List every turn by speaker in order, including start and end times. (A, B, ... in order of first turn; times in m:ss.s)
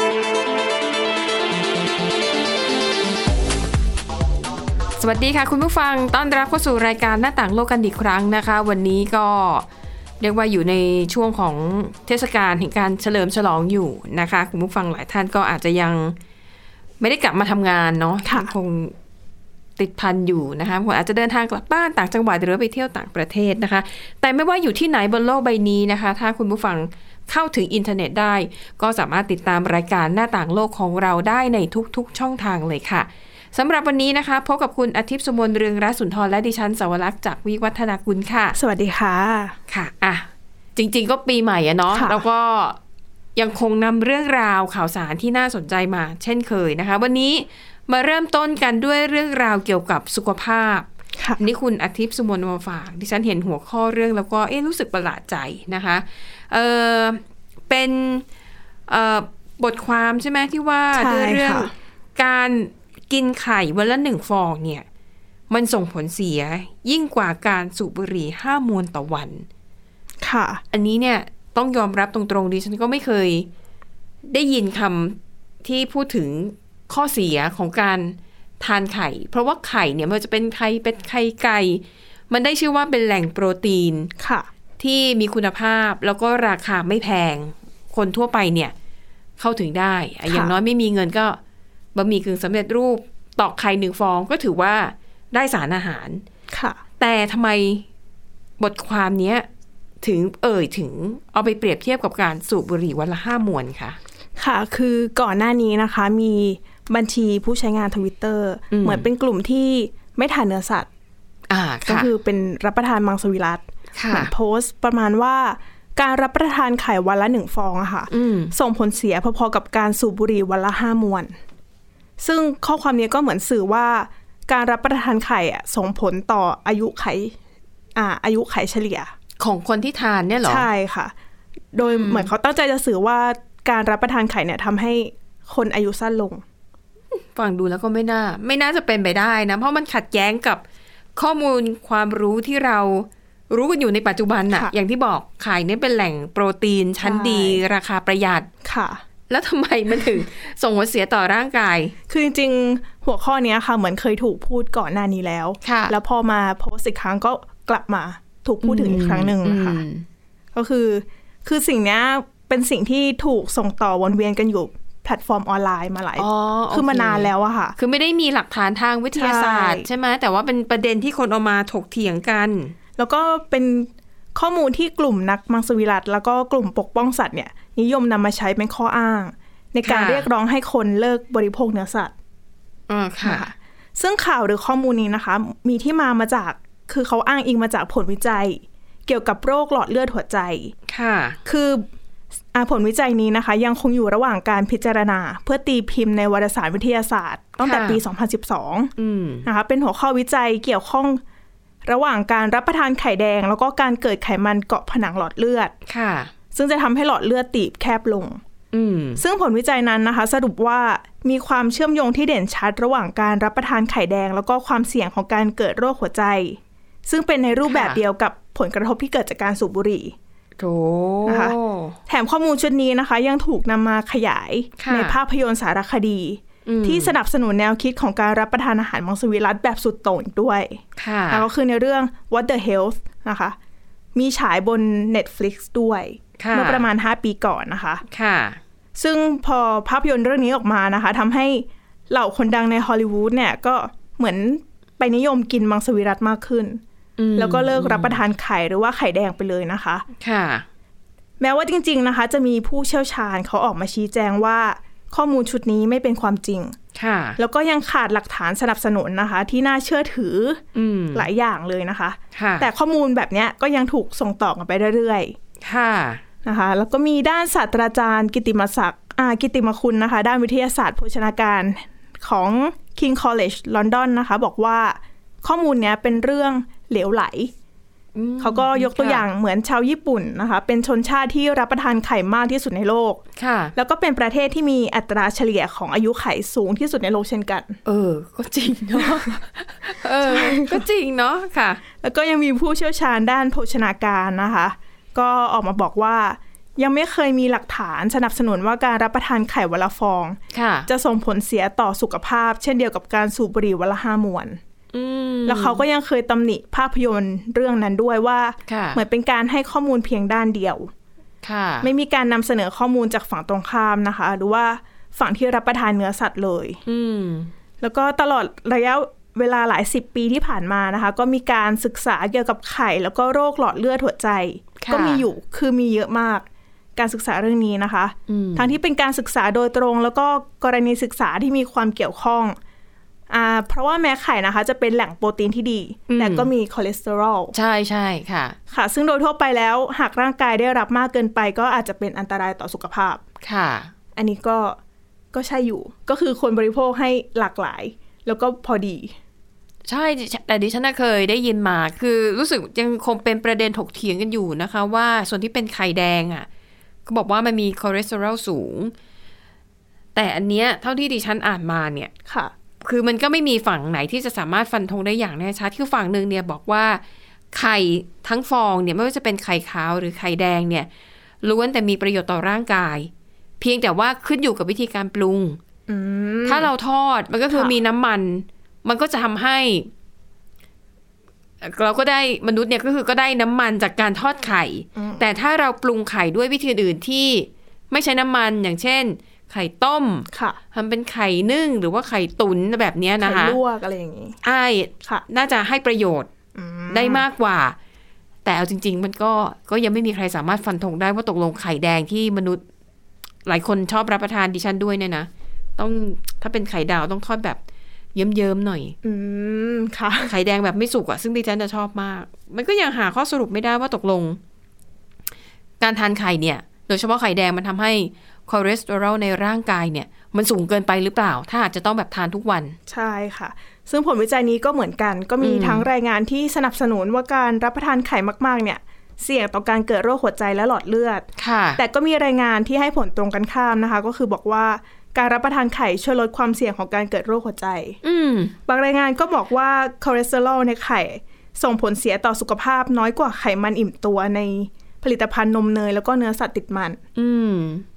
0:05.0-0:09.7 A
0:10.2-0:16.2 A
0:17.0-0:19.0 A
0:18.2-0:18.5 B
0:19.8-0:38.6 A
0:38.6-0:39.6 B
0:39.7-0:42.8 A
0:41.9-0:42.2 B
0:43.4-0:58.2 A
0:58.9-1:04.8 A
1:00.9-1:01.7 B
1:05.5-1:09.5 A
1:10.2-1:10.6 B
1:10.7-1:13.5 A
1:14.3-1:24.1 A
1:24.2-1:24.5 B
1:24.8-1:28.7 A
1:29.4-1:31.4 A
1:30.3-1:30.5 B
1:32.0-1:36.2 A
1:36.5-1:36.8 B
1:37.0-1:37.8 A
1:38.6-1:39.5 A
1:40.0-1:44.0 A
1:44.4-1:50.9 B
1:48.7-1:49.1 A
1:51.5-1:52.1 A
1:51.9-2:01.3 B
1:54.0-1:54.3 A
1:58.1-1:58.5 A
2:02.2-2:07.4 B
2:08.0-2:09.1 B
2:09.4-2:10.7 A
2:10.4-2:11.1 B
2:11.7-2:16.4 B
2:11.8-2:12.3 A
2:17.1-2:20.6 A
2:21.2-2:28.5 A
2:27.0-2:27.6 B
2:28.6-2:29.0 B
2:29.3-2:32.0 A
2:32.1-2:39.8 B
2:35.6-2:36.0 A
2:38.6-2:40.0 A
2:40.5-2:47.8 B
2:46.2-2:52.8 A
2:49.2-2:49.9 B
2:53.0-3:02.1 B
2:59.8-3:00.3 A
3:02.9-3:03.5 A
3:03.2-3:10.8 B
3:10.9-3:11.4 A
3:11.4-3:11.8 B
3:12.5-3:18.9 B
3:17.6-3:18.0 A
3:19.0-3:19.5 A
3:19.4-3:21.2 B
3:21.8-3:25.7 B
3:25.9-3:26.3 A
3:26.5-3:28.4 B
3:28.7-3:29.2 A
3:29.2-3:40.2 B
3:37.7-3:38.0 A
3:40.6-3:42.0 A
3:41.2-3:41.6 B
3:42.1-3:53.6 B
3:44.8-3:45.2 A
3:46.6-3:47.1 A
3:51.0-3:51.4 A
3:54.2-3:58.0 B
3:56.4-3:56.9 A
3:58.1-3:58.6 A
3:59.0-4:06.8 B
4:07.2-4:08.2 A
4:07.4-4:10.0 B
4:10.2-4:10.7 A
4:11.4-4:16.8 B
4:17.0-4:17.4 A
4:17.4-4:20.6 B
4:20.7-4:21.3 A
4:21.1-4:25.4 B
4:22.3-4:22.7 A
4:25.6-4:26.2 A
4:26.4-4:37.5 B
4:38.2-4:39.2 A
4:38.4-4:43.2 B
4:43.4-4:43.7 A
4:43.8-4:47.8 B
4:47.8-4:51.8 A
4:49.0-4:49.3 B
4:50.2-4:50.8 B
4:52.0-5:04.6 B
5:00.5-5:00.9 A
5:04.9-5:05.8 A
5:05.5-5:10.9 B
5:08.7-5:09.0 A
5:11.4-5:11.9 A
5:11.8-5:16.8 B
5:16.9-5:17.5 A
5:17.8-5:32.6 B
5:24.8-5:25.2 A
5:28.3-5:28.8 A
5:33.3-5:37.5 B
5:36.1-5:36.5 A
5:37.5-5:38.6 A
5:38.7-5:43.2 B
5:43.4-5:43.9 A
5:44.2-5:44.8 B
5:45.3-5:49.2 B
5:49.9-5:56.5 A
5:57.1-5:58.9 A
6:00.2-6:02.1 A
6:02.3-6:02.5 B
6:02.8-6:10.9 A
6:11.4-6:15.6 A
6:15.9-6:16.7 B
6:16.4-6:19.9 A
6:21.6-6:33.6 A
6:25.0-6:25.2 B
6:30.3-6:30.6 B
6:33.2-6:34.4 B
6:34.4-6:36.3 A
6:36.6-6:37.2 B
6:36.9-6:37.8 A
6:38.4-6:42.6 A
6:43.5-6:47.6 A
6:48.2-6:49.0 A
6:49.0-6:50.3 B
6:50.2-6:54.4 A
6:55.8-7:02.8 A
7:02.9-7:11.2 B
7:05.4-7:05.9 A
7:11.4-7:11.8 A
7:11.8-7:18.0 B
7:18.0-7:18.5 A
7:18.7-7:27.0 B
7:27.2-7:27.8 A